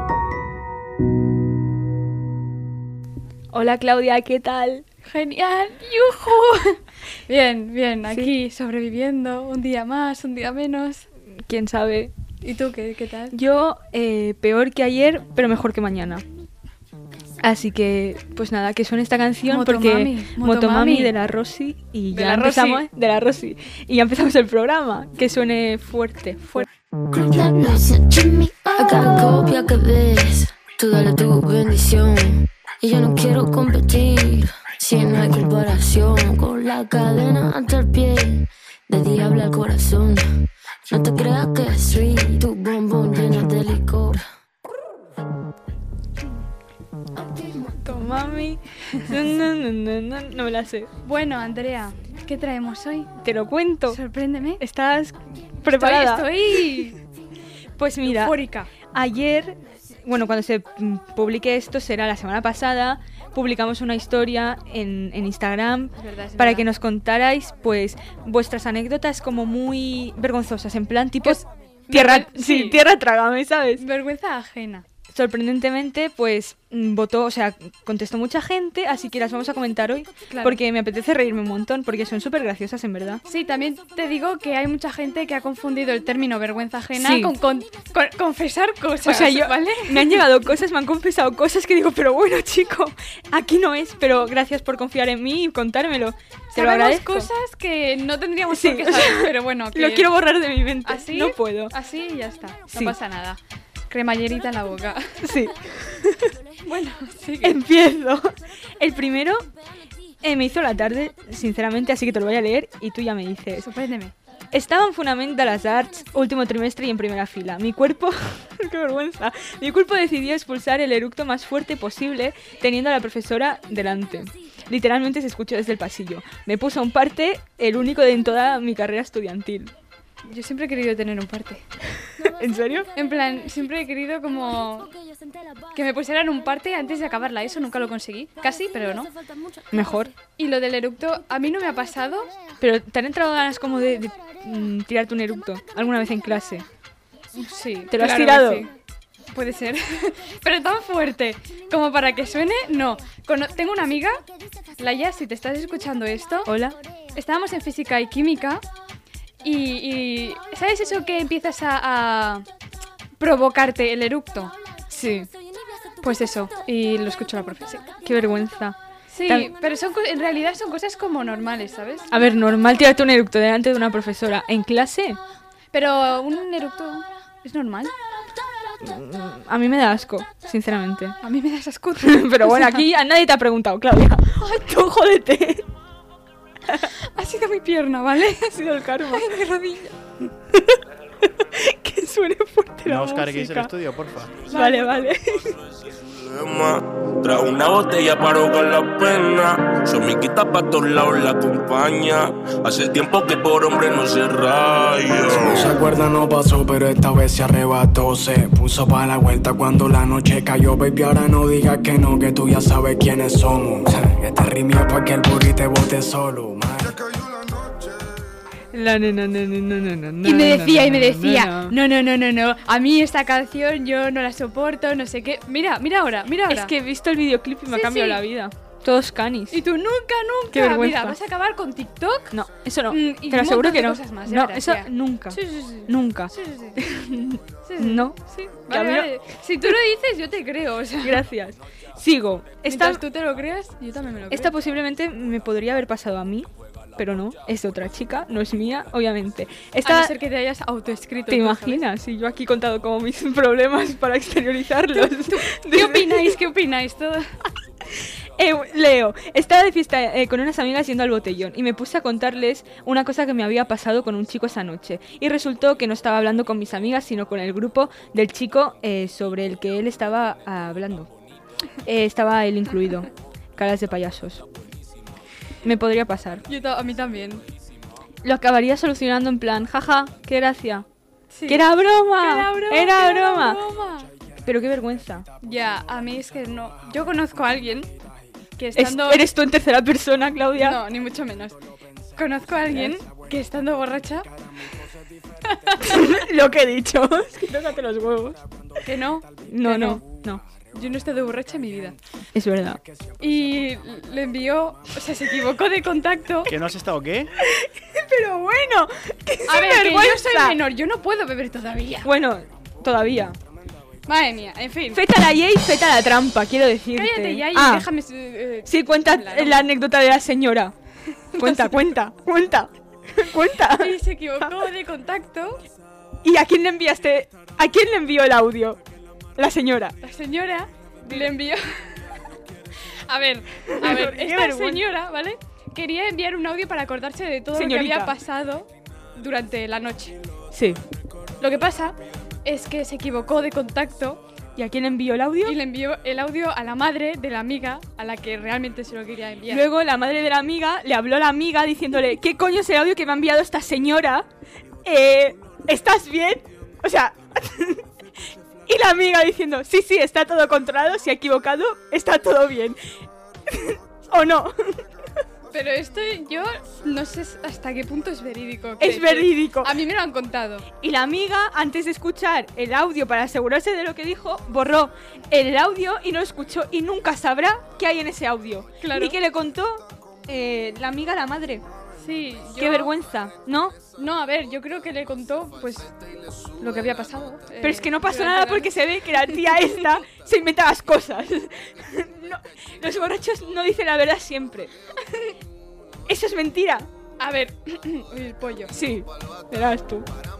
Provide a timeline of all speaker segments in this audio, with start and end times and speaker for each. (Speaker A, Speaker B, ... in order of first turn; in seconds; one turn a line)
Speaker A: 3.5-4.8
Speaker B: 5.0-11.1
Speaker A: 11.4-12.1
Speaker B: 12.4-13.3
Speaker A: 13.3-16.2
Speaker A: 17.4-26.7
Speaker B: 19.5-21.1
Speaker B: 22.1-22.8
Speaker C: 27.1-44.2
Speaker A: 47.5-50.9
Speaker B: 51.0-53.1
Speaker A: 53.2-54.0
Speaker B: 53.9-54.6
Speaker A: 54.6-56.9
Speaker B: 55.6-57.0
Speaker A: 57.8-73.8
Speaker B: 58.0-58.7
Speaker B: 66.0-66.7
Speaker B: 71.2-72.8
Speaker B: 73.8-74.8
Speaker A: 75.1-83.2
Speaker B: 80.3-80.6
Speaker B: 83.3-90.2
Speaker A: 87.0-87.3
Speaker A: 89.0-97.3
Speaker B: 96.5-100.1
Speaker A: 98.5-101.7
Speaker B: 100.8-103.4
Speaker B: 103.9-105.3
Speaker A: 105.2-106.3
Speaker B: 106.7-107.6
Speaker A: 107.4-109.5
Speaker A: 110.2-113.7
Speaker B: 113.6-114.1
Speaker A: 114.5-129.7
Speaker B: 130.3-131.6
Speaker A: 132.1-132.9
Speaker B: 132.9-134.9
Speaker B: 135.7-139.1
Speaker A: 139.7-140.1
Speaker B: 140.4-142.3
Speaker A: 142.6-146.7
Speaker B: 147.3-148.7
Speaker A: 147.9-148.7
Speaker B: 149.3-154.2
Speaker B: 154.8-156.5
Speaker A: 156.5-156.8
Speaker B: 157.2-158.7
Speaker B: 159.4-162.5
Speaker B: 163.2-164.5
Speaker A: 164.9-165.3
Speaker B: 166.0-167.9
Speaker A: 168.0-169.5
Speaker B: 169.1-172.1
Speaker A: 172.1-175.2
Speaker B: 175.7-177.9
Speaker A: 178.8-181.2
Speaker B: 181.2-182.9
Speaker A: 182.0-185.6
Speaker B: 184.4-184.7
Speaker B: 187.0-189.9
Speaker A: 188.5-189.3
Speaker A: 190.5-193.7
Speaker D: 192.9-194.4
Speaker B: 194.5-195.1
Speaker A: 194.5-195.6
Speaker E: 195.9-205.9
Speaker F: 205.4-217.0
Speaker A: 218.7-221.8
Speaker B: 220.2-226.7
Speaker A: 226.5-229.6
Speaker B: 227.7-228.2
Speaker B: 229.5-232.4
Speaker A: 230.5-231.2
Speaker A: 232.3-238.2
Speaker B: 232.9-236.8
Speaker B: 237.7-241.2
Speaker A: 238.7-239.7
Speaker A: 241.0-243.0
Speaker B: 242.7-244.5
Speaker A: 244.3-250.1
Speaker B: 249.8-251.8
Speaker A: 251.3-256.4
Speaker B: 254.9-257.3
Speaker A: 257.9-271.1
Speaker A: 271.8-274.4
Speaker A: 275.6-276.4
Speaker B: 276.5-277.4
Speaker A: 278.2-280.9
Speaker B: 281.3-284.1
Speaker A: 281.5-283.6
Speaker A: 284.4-285.3
Speaker B: 285.4-287.9
Speaker B: 288.6-289.2
Speaker A: 288.8-290.8
Speaker B: 290.6-291.6
Speaker B: 292.2-294.3
Speaker A: 292.7-293.0
Speaker B: 295.4-296.2
Speaker A: 295.8-298.4
Speaker B: 298.9-300.0
Speaker A: 299.5-300.4
Speaker B: 300.7-302.0
Speaker A: 302.4-302.8
Speaker B: 303.2-306.5
Speaker D: 306.5-307.3
Speaker A: 307.4-310.6
Speaker B: 309.5-312.1
Speaker A: 312.0-313.4
Speaker B: 314.1-315.0
Speaker A: 314.9-317.9
Speaker B: 316.9-319.6
Speaker A: 318.7-320.7
Speaker B: 321.3-321.8
Speaker A: 321.4-324.6
Speaker B: 323.7-325.6
Speaker A: 326.2-328.8
Speaker A: 329.4-330.0
Speaker B: 330.0-332.1
Speaker A: 331.1-331.3
Speaker B: 333.1-340.2
Speaker A: 333.7-334.8
Speaker A: 337.5-338.1
Speaker A: 340.5-340.8
Speaker B: 341.4-344.2
Speaker A: 344.6-345.6
Speaker B: 345.4-349.6
Speaker A: 349.5-354.3
Speaker A: 354.8-357.8
Speaker A: 358.7-362.8
Speaker A: 363.5-364.8
Speaker B: 365.5-370.7
Speaker A: 368.8-369.8
Speaker A: 370.8-381.6
Speaker B: 378.8-379.2
Speaker B: 382.0-382.9
Speaker A: 382.6-383.8
Speaker B: 384.0-385.9
Speaker B: 386.6-389.5
Speaker A: 387.6-394.7
Speaker A: 396.1-396.9
Speaker B: 397.2-398.7
Speaker A: 398.7-400.1